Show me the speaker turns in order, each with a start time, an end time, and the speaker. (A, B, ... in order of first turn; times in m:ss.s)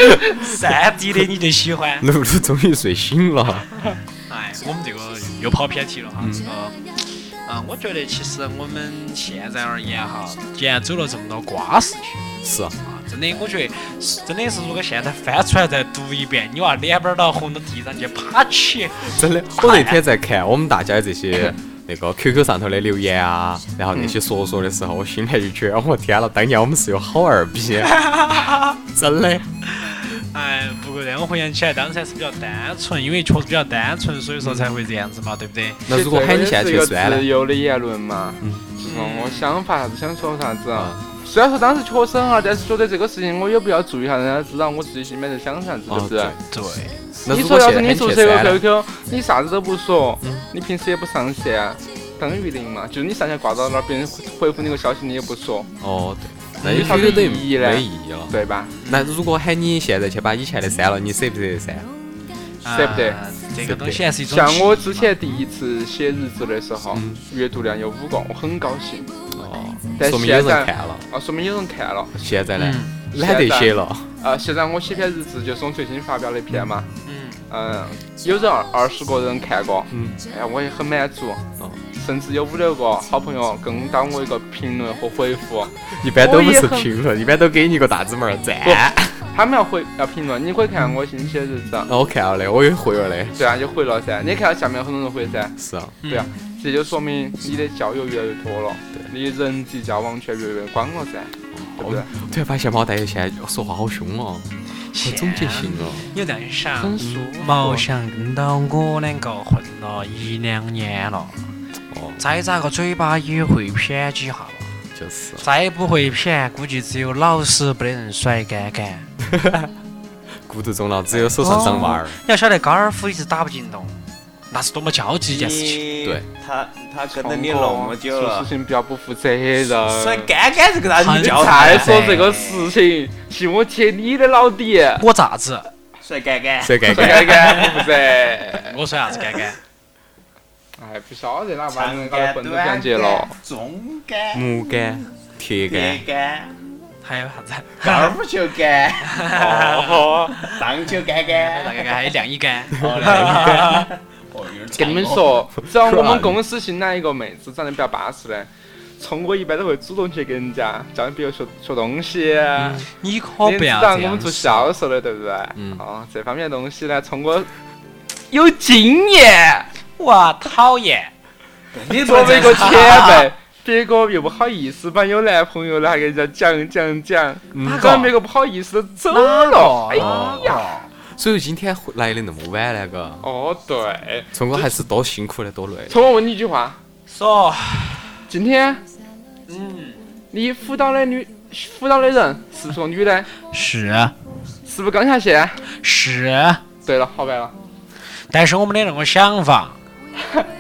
0:00.3-0:02.1 A
0:02.0-0:03.7 B
0:04.3-0:12.2 A
0:06.2-0:06.5 B
0:12.4-0:12.8 B
0:12.8-0:20.0 A
0:19.0-0:28.0 B
0:27.8-0:28.8 A
0:28.9-0:29.5 B
0:29.6-0:35.8 A
0:35.9-0:37.3 B
0:35.9-0:46.4 C
0:38.4-0:38.7 B
0:38.8-0:39.5 A
0:40.7-0:41.0 B
0:45.9-0:46.4 B
0:46.5-0:47.0 A
0:47.2-0:48.6 B
0:47.3-0:55.7 C
0:55.8-0:58.4 B
0:56.6-0:57.4 A
0:56.6-0:58.7 C
0:58.8-0:59.2 A
0:58.9-1:01.9 B
1:02.6-1:05.1 A
1:02.7-1:03.2 C
1:03.6-1:04.0 B
1:04.3-1:09.1 C
1:06.9-1:07.2 B
1:09.3-1:11.1 B
1:10.0-1:12.2 C
1:12.2-1:14.1 B
1:12.6-1:12.9 A
1:13.1-1:16.9 C
1:17.0-1:17.4 A
1:17.5-1:26.9 C
1:19.9-1:20.2 B
1:25.9-1:29.3 B
1:28.6-1:31.9 C
1:31.9-1:33.4 B
1:33.4-1:35.6 C
1:35.6-1:36.0 B
1:36.0-1:36.3 A
1:36.1-1:42.1 C
1:41.5-1:46.1 B
1:44.7-1:51.5 A
1:46.8-1:47.8 C
1:47.0-1:47.3 B
1:51.9-1:52.2 B
1:52.2-1:54.8 A
1:54.9-1:55.5 B
1:55.4-1:59.1 A
1:59.2-1:59.7 B
2:00.5-2:02.2 B
2:01.1-2:01.6 D
2:01.4-2:04.0 A
2:04.5-2:05.9 A
2:05.3-2:08.5 D
2:07.1-2:10.3 C
2:09.8-2:12.8 D
2:11.0-2:12.3 A
2:11.2-2:15.1 C
2:15.0-2:15.7 A
2:16.0-2:18.1 D
2:16.6-2:17.6 B
2:16.9-2:18.8 C
2:18.5-2:19.6 A
2:20.8-2:23.4 C
2:21.7-2:24.4 D
2:24.3-2:26.0 B
2:25.7-2:26.6 D
2:27.0-2:28.2 A
2:27.8-2:29.2 D
2:29.0-2:30.6 A
2:29.3-2:30.4 C
2:30.4-2:32.1 D
2:31.4-2:33.9 A
2:32.8-2:35.4 D
2:33.0-2:33.7 B
2:34.8-2:42.9 C
2:35.6-2:36.4 B
2:42.6-2:42.9 B
2:42.9-2:44.8 A
2:43.4-2:47.5 C
2:45.6-2:45.8 B
2:48.3-2:49.7 C
2:50.0-2:51.1 A
2:51.7-2:53.2 D
2:51.9-3:00.7 C
2:52.2-2:53.3 A
2:57.5-2:58.0 B
2:57.6-2:58.1 A
2:59.1-3:00.8 A
3:00.0-3:03.2 B
3:03.2-3:04.7 C
3:04.3-3:06.0 B
3:05.9-3:06.8 C
3:07.1-3:08.2 A
3:08.3-3:08.8 C
3:09.5-3:10.0 A
3:10.3-3:13.3 C
3:13.5-3:14.2 A
3:14.7-3:15.6 C
3:15.6-3:16.6 A
3:16.8-3:17.6 C
3:18.1-3:19.8 A